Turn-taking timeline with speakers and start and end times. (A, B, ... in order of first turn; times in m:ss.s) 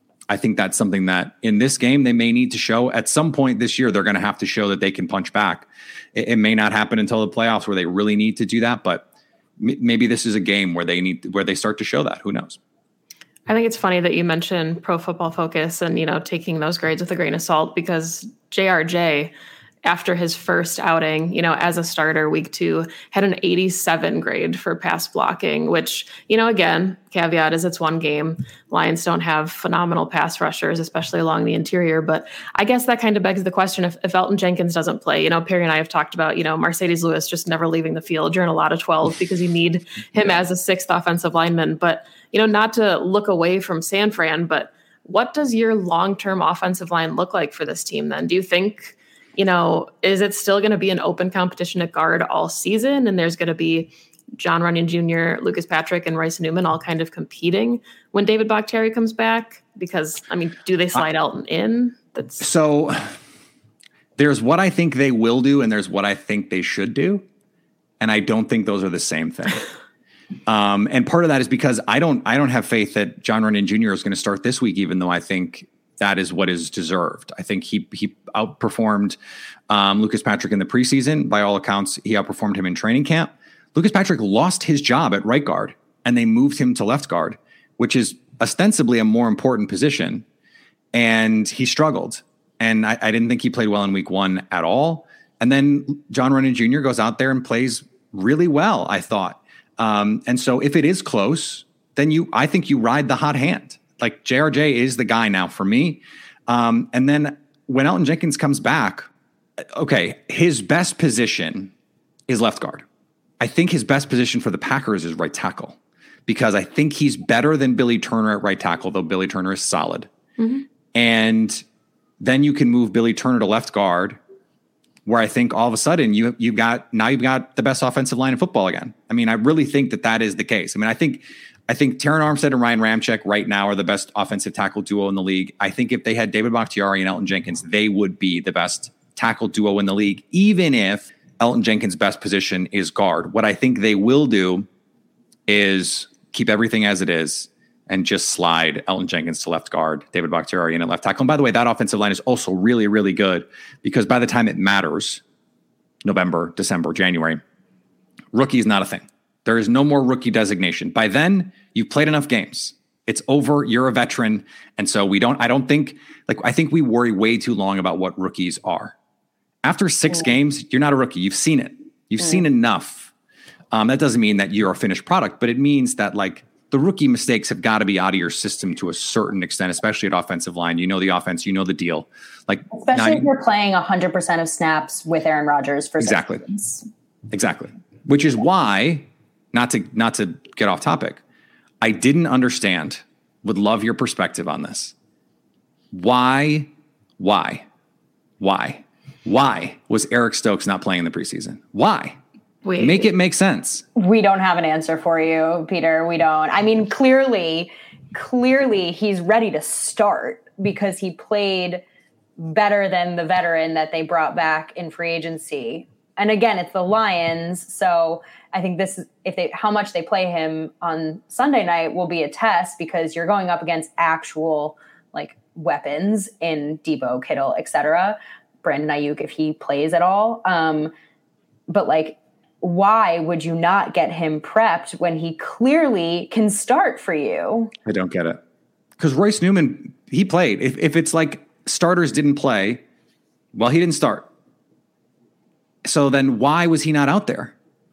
0:00.3-0:09.1 A
0:09.6-0:12.6 A
0:13.5-0:19.3 B
0:19.8-1:02.5 B
1:02.4-1:03.2 A
1:04.2-1:07.2 A
1:08.0-1:09.6 A
1:10.5-1:19.2 A
1:19.7-1:30.2 A
1:30.9-1:49.1 A
1:49.6-1:51.7 A
1:52.3-1:52.8 A
1:53.4-2:00.1 A
2:00.4-2:00.6 B
2:00.9-2:01.6 A
2:02.2-2:04.2 A
2:05.0-2:24.7 A
2:25.5-2:35.2 A
2:36.0-2:37.4 A
2:38.3-2:49.0 A
2:49.6-2:53.1 A
2:53.7-3:03.3 A
3:02.7-3:06.8 C
3:06.0-3:06.4 A
3:07.3-3:11.2 A
3:11.8-3:15.0 A
3:15.9-3:17.6 A
3:18.4-3:22.2 A
3:22.6-3:23.1 B
3:22.8-3:23.8 A
3:24.0-3:31.8 C
3:32.4-3:50.9 C
3:51.7-3:57.7 C
3:57.8-3:58.4 A
3:59.0-4:02.8 A
4:03.5-4:04.3 A
4:05.8-4:07.5 A